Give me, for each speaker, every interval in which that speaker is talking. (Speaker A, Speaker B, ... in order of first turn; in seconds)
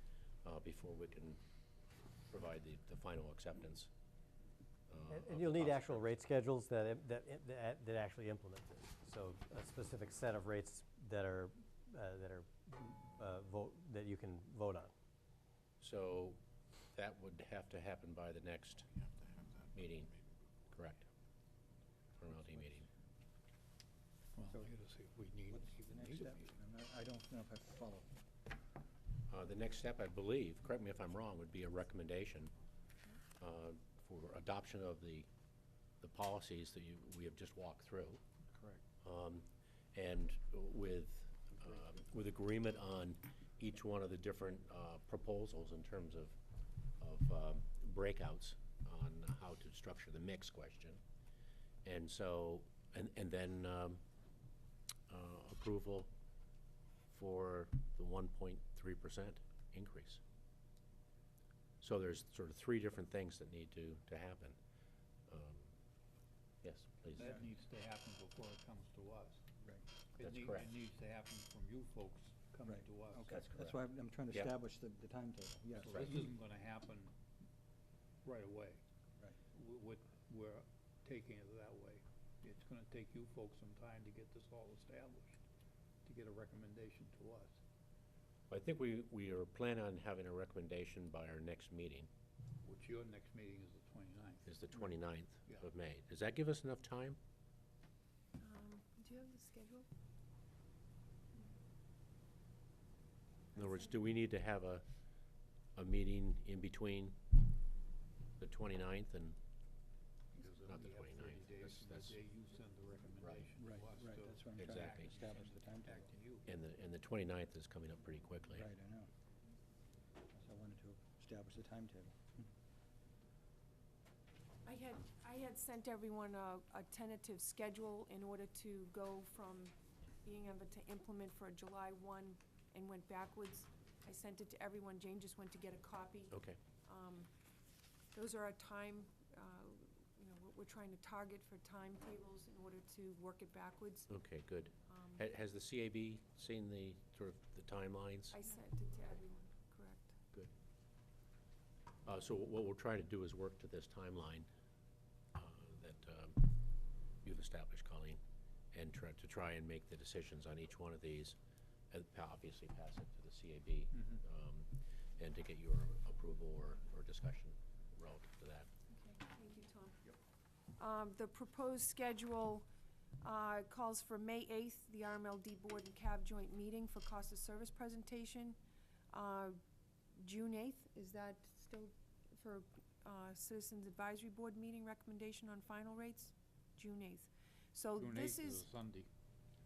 Speaker A: 0.4-1.4, 2.3-3.9, 4.9-6.1, 15.8-16.4, 16.9-18.9, 19.7-20.1, 20.7-21.1, 22.2-22.9, 29.3-32.5, 33.4-35.3, 36.0-38.2, 39.0-46.4, 47.0-51.0, 51.8-54.0, 55.1-56.1, 57.1-60.2, 61.8-64.6, 65.3-65.7, 66.6-67.4, 70.2-70.7, 73.3-73.8, 75.8-76.3, 88.5-92.1, 94.5-97.2, 103.5-104.8, 105.8-107.2, 108.4-109.4, 110.5-112.2, 113.2-113.5, 114.6-115.2, 116.5-118.7, 136.3-136.6, 144.1-148.4, 152.1-154.5, 155.3-156.5, 157.2-158.2, 158.7-161.4, 161.9-168.7
Speaker B: 5.1-14.9
Speaker C: 24.4-26.5, 67.2-69.4, 70.2-73.4, 75.8-77.1, 78.2-78.8, 79.5-85.4, 86.0-87.6, 92.6-94.5, 110.3-116.5, 163.9-164.2, 188.0-189.1
Speaker D: 24.4-24.7, 25.5-28.1, 72.7-76.3, 113.6-116.2, 118.5-119.1, 120.3-122.3
Speaker E: 98.4-99.9, 124.7-137.3, 138.1-144.1, 144.9-145.2, 148.3-150.2, 168.9-170.1, 170.8-172.7, 173.2-178.6, 179.1-179.6, 180.1-188.7